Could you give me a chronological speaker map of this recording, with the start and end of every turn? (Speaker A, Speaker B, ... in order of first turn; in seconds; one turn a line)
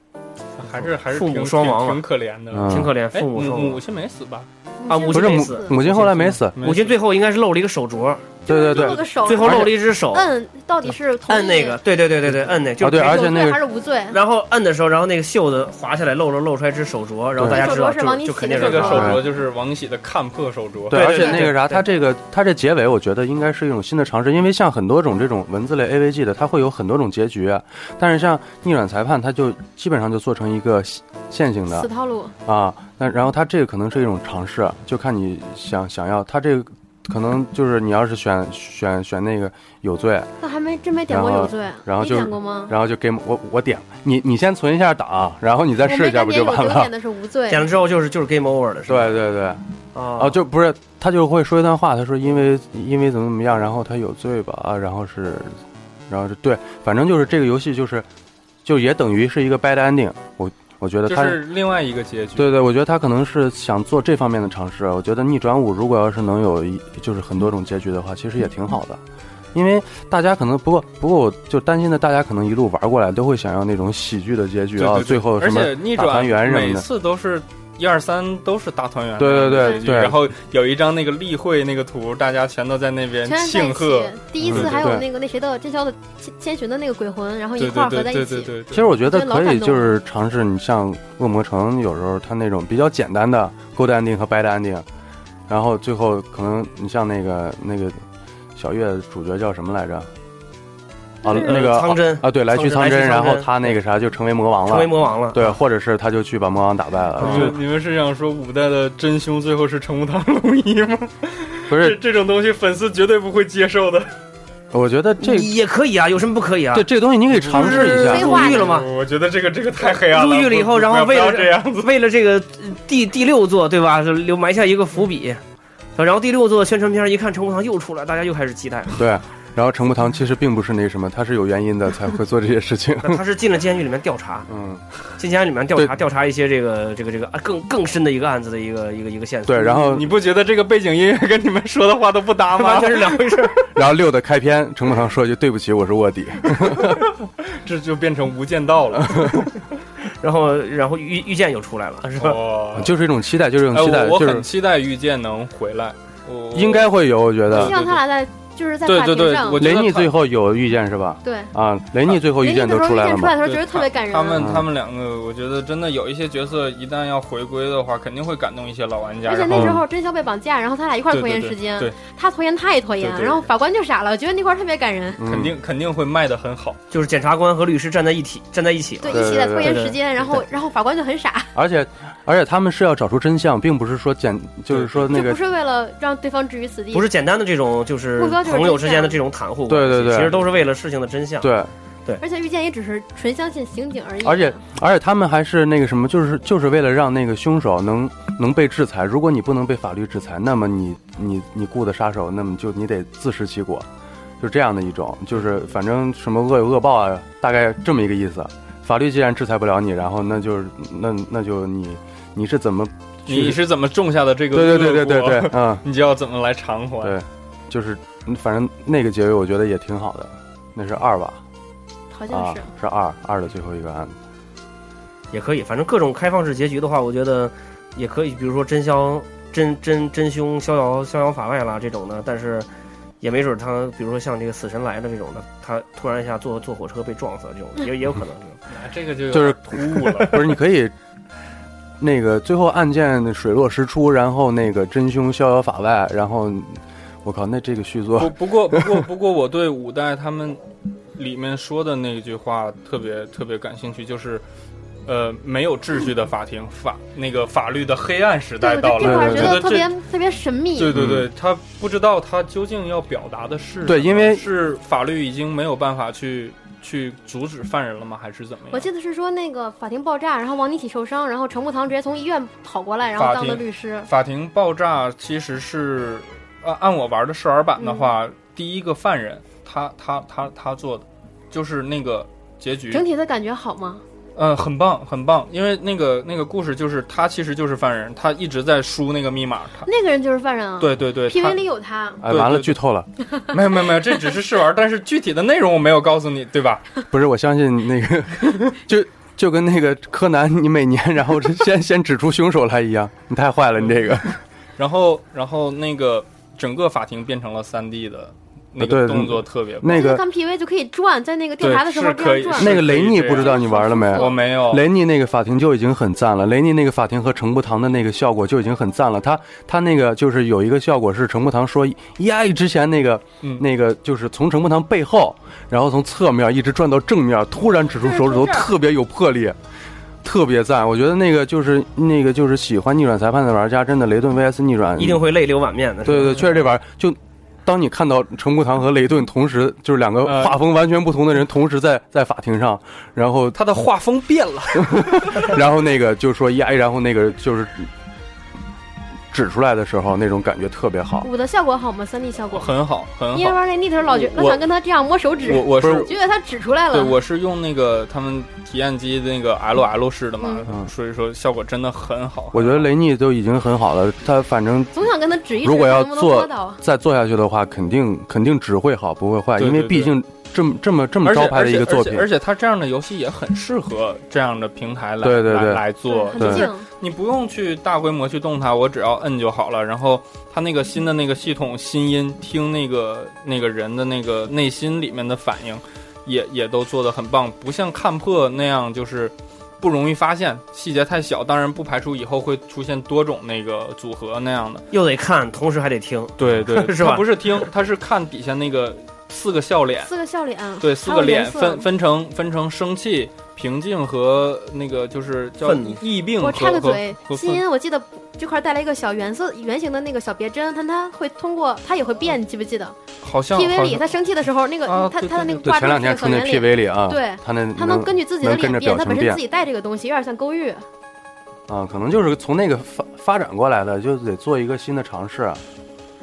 Speaker A: 0.6-4.5
Speaker B: 0.6-2.0
Speaker C: 2.5-2.9
Speaker B: 2.6-3.8
Speaker D: 4.8-5.7
Speaker B: 4.9-10.3
Speaker C: 5.1-6.6
Speaker A: 6.6-7.0
Speaker D: 8.5-11.8
Speaker C: 8.5-9.8
Speaker B: 11.3-13.4
Speaker C: 12.8-13.6
Speaker D: 12.9-14.2
Speaker B: 14.1-19.2
Speaker C: 17.4-17.8
Speaker D: 17.4-19.2
Speaker A: 18.5-21.3
Speaker C: 18.9-19.2
Speaker C: 20.9-31.9
Speaker B: 20.9-21.8
Speaker D: 31.7-32.4
Speaker C: 32.5-40.3
Speaker D: 40.4-42.8
Speaker C: 41.1-46.9
Speaker D: 45.8-47.7
Speaker B: 47.5-49.2
Speaker C: 48.9-49.6
Speaker B: 49.9-50.4
Speaker C: 50.2-55.5
Speaker C: 56.1-58.1
Speaker C: 58.6-61.4
Speaker A: 61.1-62.6
Speaker C: 62.4-69.0
Speaker C: 69.5-76.9
Speaker A: 74.8-85.0
Speaker C: 79.2-80.2
Speaker D: 83.2-90.0
Speaker C: 84.4-85.0
Speaker A: 87.6-89.0
Speaker C: 88.7-94.9
Speaker C: 95.5-98.0
Speaker C: 98.6-100.1
Speaker C: 101.2-107.6
Speaker B: 101.2-103.8
Speaker B: 104.7-105.6
Speaker B: 107.2-107.6
Speaker A: 107.2-114.1
Speaker C: 111.7-112.0
Speaker C: 114.7-115.5
Speaker B: 115.2-118.9
Speaker C: 116.7-118.5
Speaker A: 117.5-121.9
Speaker D: 117.6-118.7
Speaker B: 119.8-125.4
Speaker B: 126.0-129.0
Speaker C: 129.0-133.2
Speaker B: 133.0-134.5
Speaker C: 134.5-134.8
Speaker B: 135.2-140.0
Speaker C: 139.5-140.1
Speaker A: 139.9-143.4
Speaker B: 142.6-143.7
Speaker C: 143.8-147.1
Speaker A: 146.6-149.4
Speaker C: 149.1-149.4
Speaker B: 150.2-152.4
Speaker A: 152.2-152.9
Speaker C: 152.8-154.5
Speaker A: 153.7-156.9
Speaker C: 156.5-157.8
Speaker A: 157.5-158.0
Speaker D: 157.5-159.7
Speaker A: 158.9-160.2
Speaker C: 159.6-163.4
Speaker D: 161.2-161.5
Speaker D: 162.3-164.4
Speaker A: 163.4-169.8
Speaker C: 164.4-164.7
Speaker D: 169.3-175.2
Speaker C: 169.5-169.8
Speaker A: 171.1-171.9
Speaker A: 173.0-173.5
Speaker C: 175.2-175.6
Speaker A: 175.2-176.8
Speaker B: 176.9-180.4
Speaker D: 179.0-181.5
Speaker C: 179.1-179.9
Speaker C: 181.6-185.4
Speaker A: 184.7-185.2
Speaker D: 185.1-187.1
Speaker B: 186.9-191.5
Speaker D: 188.2-189.2
Speaker C: 189.7-190.4
Speaker C: 191.4-191.7
Speaker D: 192.2-194.6
Speaker C: 194.2-203.9
Speaker C: 204.4-213.6
Speaker A: 213.3-217.2
Speaker C: 214.5-215.8
Speaker C: 217.0-221.4
Speaker D: 222.1-222.7
Speaker C: 222.3-224.2
Speaker B: 225.3-232.7
Speaker B: 233.2-238.6
Speaker A: 238.7-240.5
Speaker C: 239.3-240.9
Speaker C: 242.0-249.0
Speaker A: 248.2-250.6
Speaker A: 251.2-254.4
Speaker A: 255.1-259.9
Speaker D: 258.6-260.9
Speaker C: 259.0-259.7
Speaker A: 260.8-268.9
Speaker C: 260.9-261.3
Speaker C: 263.9-264.5
Speaker D: 268.7-274.1
Speaker A: 273.2-283.1
Speaker D: 277.8-278.1
Speaker D: 282.9-284.0
Speaker A: 284.4-289.9
Speaker D: 289.9-292.2
Speaker A: 290.8-291.6
Speaker A: 292.2-292.8
Speaker C: 292.2-293.1
Speaker A: 293.5-296.9
Speaker C: 297.1-304.4
Speaker A: 304.8-310.1
Speaker C: 308.8-310.2
Speaker D: 309.9-312.8
Speaker A: 311.6-314.8
Speaker C: 312.6-329.6
Speaker D: 313.3-314.4
Speaker A: 328.0-328.7
Speaker C: 330.2-335.2
Speaker B: 335.0-336.5
Speaker C: 336.1-343.6
Speaker A: 340.2-340.6
Speaker A: 343.5-345.6
Speaker C: 344.8-347.9
Speaker C: 349.3-351.3
Speaker D: 351.2-352.7
Speaker A: 352.5-354.6
Speaker D: 353.3-357.1
Speaker A: 355.4-356.1
Speaker C: 355.7-356.1
Speaker A: 356.9-362.9
Speaker D: 360.4-360.7
Speaker C: 362.5-364.9
Speaker D: 364.9-366.8
Speaker C: 365.6-372.3
Speaker A: 369.6-370.1
Speaker A: 371.2-394.9
Speaker C: 375.2-375.8
Speaker D: 376.1-376.9
Speaker C: 376.4-376.7
Speaker B: 394.9-397.5
Speaker A: 396.4-400.1
Speaker D: 400.0-401.9
Speaker A: 400.8-407.6
Speaker B: 405.6-406.0
Speaker D: 406.4-413.0
Speaker A: 413.2-414.1
Speaker D: 413.5-420.8
Speaker A: 414.9-415.6
Speaker C: 415.6-419.4
Speaker C: 421.7-425.6